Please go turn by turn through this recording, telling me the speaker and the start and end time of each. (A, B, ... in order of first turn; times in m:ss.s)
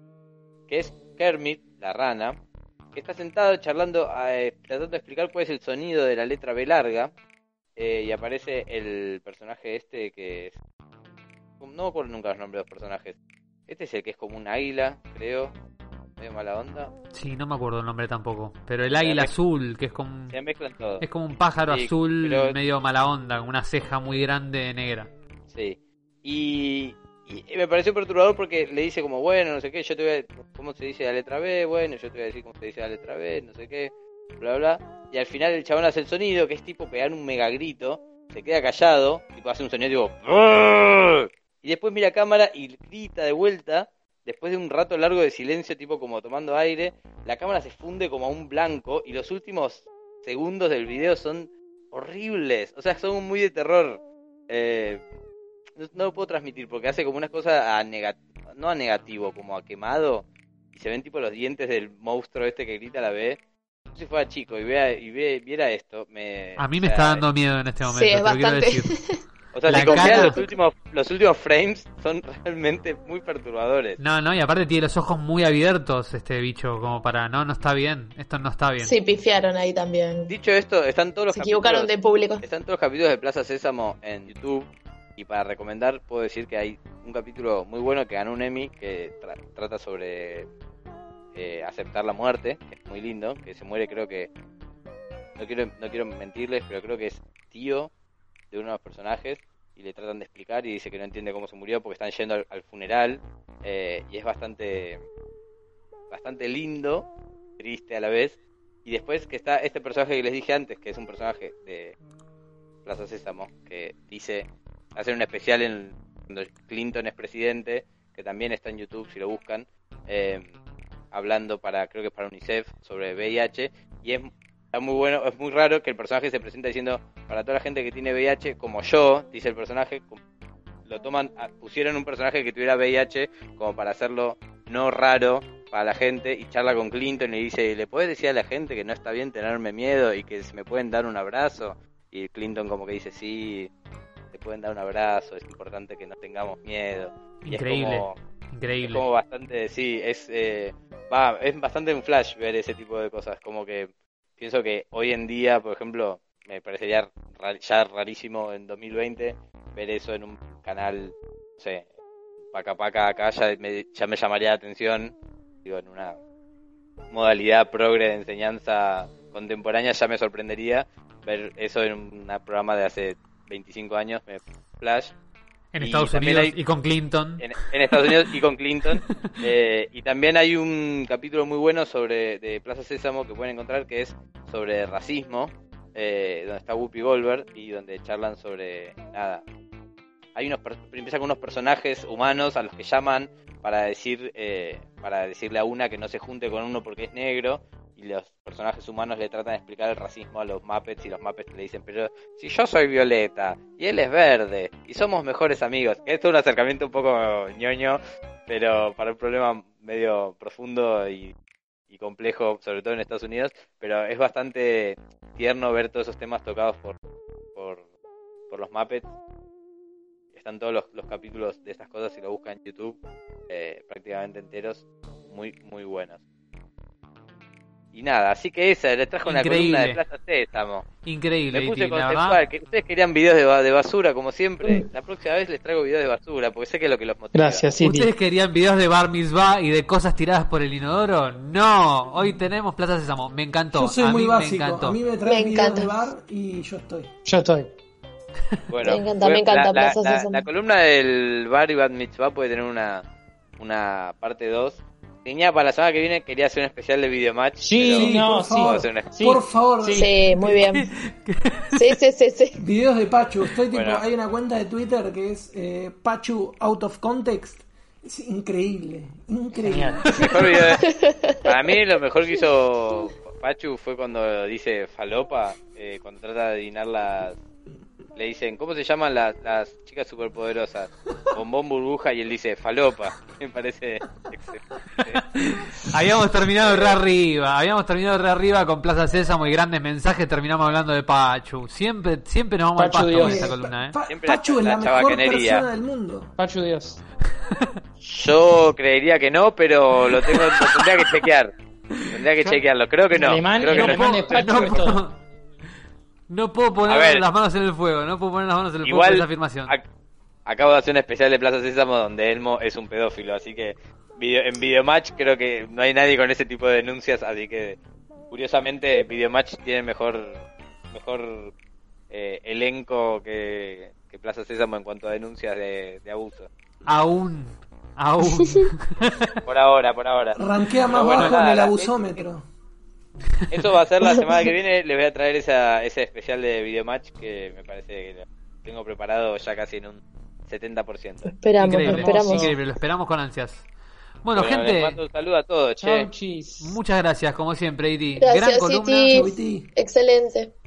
0:00.7-0:02.4 A
0:02.9-0:07.1 A
0:07.8-0:10.6 A
0:11.6-0:15.5 A
0:16.2-0:16.9 A
0:17.1-0:20.4 B
0:18.9-0:19.3 A
0:20.3-0:21.0 A
0:21.0-0:25.1 B
0:21.7-0:22.6 A
0:25.5-0:55.0 A
0:55.8-1:03.4 A
1:03.9-1:07.3 A
1:06.6-1:08.9 B
1:07.8-1:10.6 C
1:09.5-1:14.0 A
1:09.7-1:10.4 B
1:14.0-1:18.9 B
1:18.8-1:20.3 C
1:20.3-1:30.5 A
1:21.3-1:22.4 C
1:31.3-1:34.3 A
1:35.4-1:37.9 A
1:38.5-1:45.0 A
1:46.1-1:52.0 A
1:52.8-2:00.5 A
2:01.1-2:10.2 A
2:10.8-2:23.7 A
2:24.3-2:28.2 A
2:27.4-2:29.1 B
2:28.8-2:41.9 A
2:42.5-2:46.2 A
2:47.1-2:55.2 A
2:55.7-2:58.3 B
2:55.8-2:56.6 A
2:57.4-3:09.4 A
2:59.0-2:59.4 B
3:10.4-3:31.3 A
3:31.9-3:37.0 A
3:37.6-3:37.8 A
3:38.5-3:39.1 A
3:40.3-3:46.2 A
3:47.9-3:50.9 A
3:49.2-3:50.0 B
3:51.0-3:52.4 B
3:51.5-3:57.6 A
3:57.3-3:58.1 D
3:57.8-4:05.0 B
4:03.7-4:07.1 E
4:05.2-4:06.0 C
4:07.3-4:07.7 D
4:08.7-4:13.1 A
4:08.8-4:10.4 C
4:13.6-4:19.1 A
4:17.6-4:20.1 D
4:17.9-4:20.1 E
4:20.0-4:20.9 C
4:20.4-4:22.0 B
4:21.7-4:22.6 C
4:22.6-4:30.0 E
4:23.7-4:24.0 A
4:29.6-4:30.1 D
4:30.2-4:30.8 A
4:30.8-4:31.8 C
4:31.4-4:37.4 A
4:38.2-4:45.2 A
4:45.0-4:54.0 B
4:52.8-4:53.6 D
4:53.2-4:56.3 E
4:54.1-4:55.7 A
4:56.4-4:57.0 D
4:57.5-4:57.8 B
4:58.0-5:01.5 A
5:00.2-5:01.0 B
5:02.0-5:02.6 B
5:02.1-5:04.8 A
5:03.1-5:05.0 D
5:03.7-5:05.2 B
5:06.3-5:09.7 B
5:06.9-5:07.2 A
5:08.8-5:09.8 A
5:10.5-5:17.8 A
5:18.3-5:21.5 A
5:22.1-5:26.5 A
5:26.9-5:29.4 B
5:29.5-5:32.2 A
5:30.4-5:32.4 E
5:33.3-5:33.6 B
5:33.5-5:41.3 A
5:41.2-5:42.6 C
5:41.6-5:43.7 B
5:41.6-5:42.5 D
5:44.2-5:45.0 B
5:44.4-5:46.1 A
5:45.8-5:46.8 D
5:46.6-5:49.2 B
5:48.2-5:50.5 C
5:49.1-5:49.7 E